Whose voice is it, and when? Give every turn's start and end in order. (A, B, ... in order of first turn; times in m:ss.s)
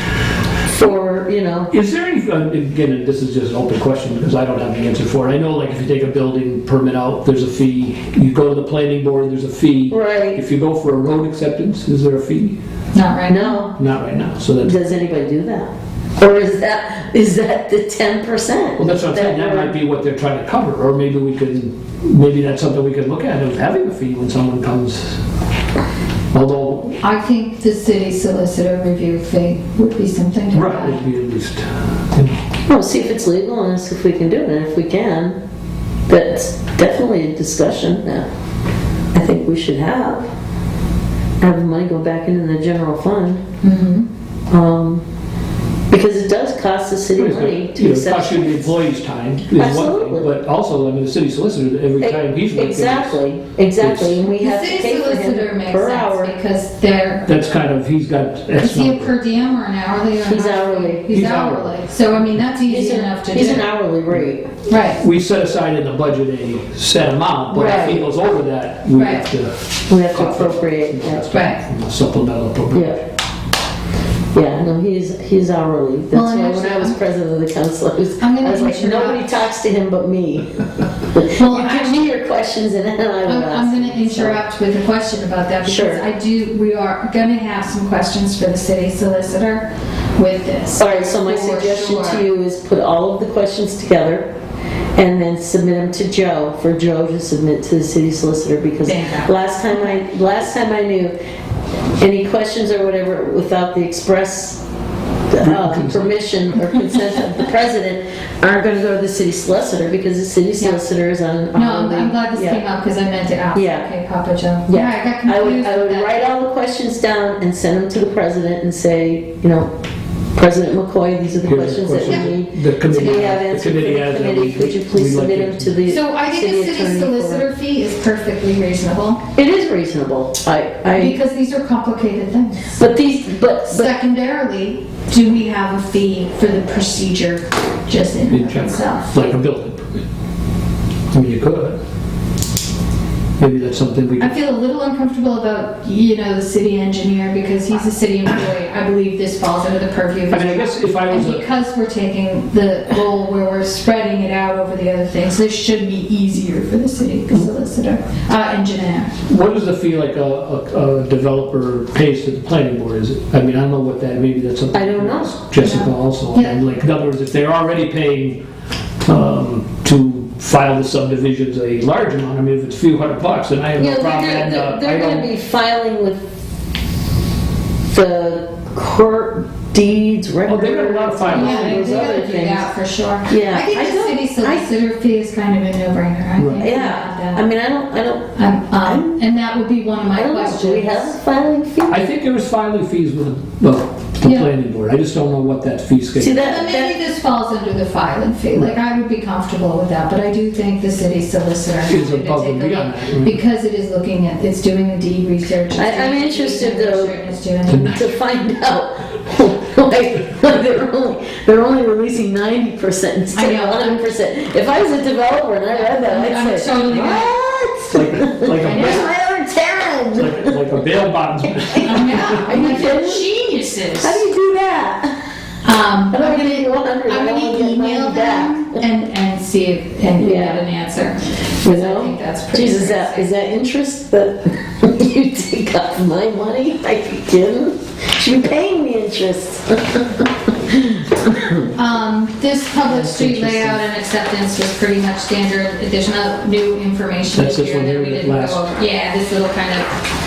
0:00.6-0:01.7 A
0:01.7-0:12.6 B
0:09.9-0:10.4 A
0:12.9-0:13.7 C
0:13.3-0:13.8 A
0:13.8-0:14.7 B
0:14.6-0:19.8 A
0:18.8-0:25.2 B
0:26.3-0:27.0 B
0:27.0-0:31.0 C
0:30.5-0:32.4 B
0:32.7-0:35.4 A
0:36.1-0:38.3 A
0:39.1-0:40.3 A
0:41.4-0:43.4 A
0:43.6-0:44.1 C
0:44.5-0:45.0 A
0:45.9-0:48.7 A
0:47.2-0:53.2 B
0:49.5-0:50.3 A
0:52.0-0:56.3 A
0:53.8-0:54.2 B
0:54.4-0:57.3 C
0:57.3-0:59.1 B
0:58.6-1:03.7 C
1:00.2-1:01.1 A
1:01.1-1:01.8 B
1:02.6-1:04.4 A
1:04.7-1:05.0 C
1:05.0-1:13.0 B
1:07.5-1:08.1 A
1:09.0-1:09.2 C
1:09.9-1:11.2 A
1:11.3-1:11.6 C
1:12.7-1:13.0 A
1:14.3-1:24.4 A
1:16.1-1:17.0 C
1:18.2-1:19.3 C
1:21.3-1:22.0 C
1:23.2-1:32.2 C
1:25.6-1:26.0 A
1:30.8-1:34.3 A
1:34.9-1:41.1 A
1:38.8-1:39.4 C
1:42.0-1:44.6 A
1:45.3-1:52.6 A
1:45.4-1:46.2 B
1:50.6-1:50.8 C
1:51.5-1:56.2 C
1:53.5-1:53.9 A
1:54.7-1:59.7 A
2:00.3-2:07.4 A
2:01.4-2:05.8 B
2:02.0-2:02.3 C
2:05.8-2:09.2 C
2:09.4-2:11.2 A
2:10.9-2:12.8 C
2:12.8-2:13.9 A
2:13.7-2:19.3 C
2:18.3-2:20.0 B
2:21.1-2:21.8 B
2:23.4-2:24.3 B
2:24.2-2:39.1 C
2:30.3-2:31.4 B
2:39.3-2:48.4 B
2:44.7-2:45.4 A
2:45.6-2:46.6 C
2:49.0-2:55.3 B
2:53.8-2:56.3 A
2:57.9-3:02.7 A
3:00.5-3:02.1 B
3:01.3-3:07.4 C
3:03.3-3:04.7 A
3:06.4-3:06.7 B
3:06.6-3:08.3 A
3:08.3-3:11.1 C
3:08.8-3:09.2 A
3:10.1-3:12.1 A
3:11.9-3:16.4 B
3:14.2-3:14.5 C
3:16.2-3:17.0 A
3:16.4-3:28.0 C
3:21.9-3:23.4 B
3:25.7-3:27.2 A
3:27.7-3:28.0 B
3:27.8-3:40.6 A
3:33.3-3:34.0 C
3:35.7-3:37.4 C
3:37.9-3:39.1 B
3:38.6-3:39.1 C
3:40.2-3:42.5 B
3:41.7-3:43.2 A
3:41.8-3:44.2 C
3:44.0-3:45.2 A
3:45.6-3:53.3 C
3:46.1-3:48.8 A
3:50.2-3:50.6 A
3:51.6-4:01.6 A
4:01.7-4:09.9 C
4:02.8-4:03.8 B
4:07.3-4:08.7 B